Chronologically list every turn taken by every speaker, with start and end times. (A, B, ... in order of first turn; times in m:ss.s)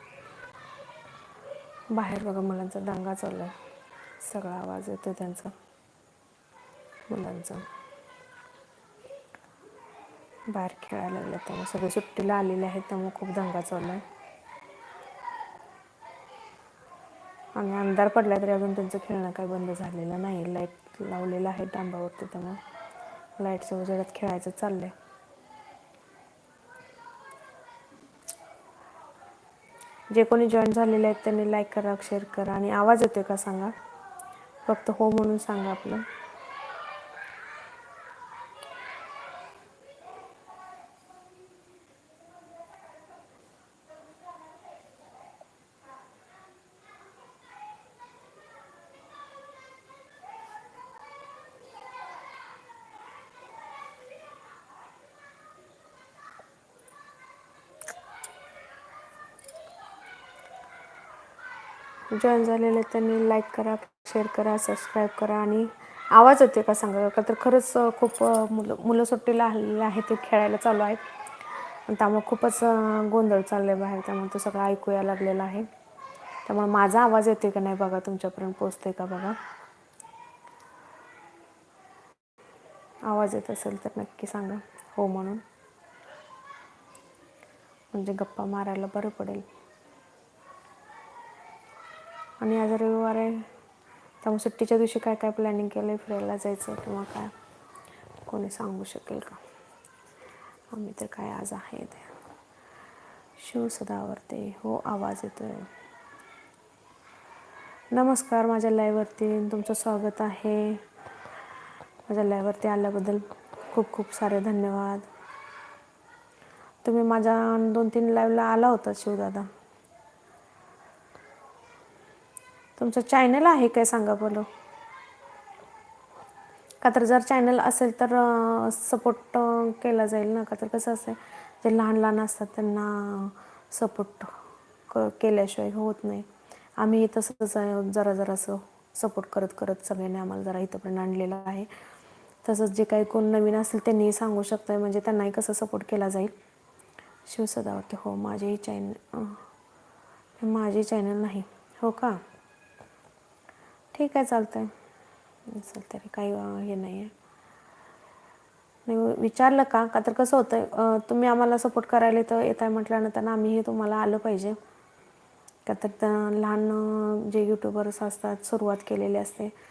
0:01.9-0:03.5 A
0:04.2-0:05.5 A
0:07.1-0:07.6 A
0:10.5-0:14.0 A
0:17.6-0:22.6 A
0:23.4-0:24.9 A
0:30.1-0:33.7 A
0:34.6-0:36.0 A
1:02.1-1:11.0 A
1:11.9-1:15.7 A
1:16.4-1:19.4 A
1:23.1-1:25.4 A
1:27.9-1:29.4 A
1:32.4-1:33.4 A
1:34.2-1:37.3 A
1:38.3-1:39.4 A
1:40.7-1:42.1 A
1:43.4-1:45.7 A
1:47.9-1:50.8 A
1:52.1-1:55.1 A
1:56.8-1:59.5 A
2:02.8-2:04.5 A
2:06.8-2:14.3 A
2:14.9-2:16.3 A
2:16.8-2:21.7 A
2:22.4-2:26.3 A
2:27.3-2:29.4 A
2:30.4-2:32.2 A
2:33.9-2:34.7 A
2:35.5-2:37.1 A
2:38.9-2:44.6 A
2:45.6-2:49.5 A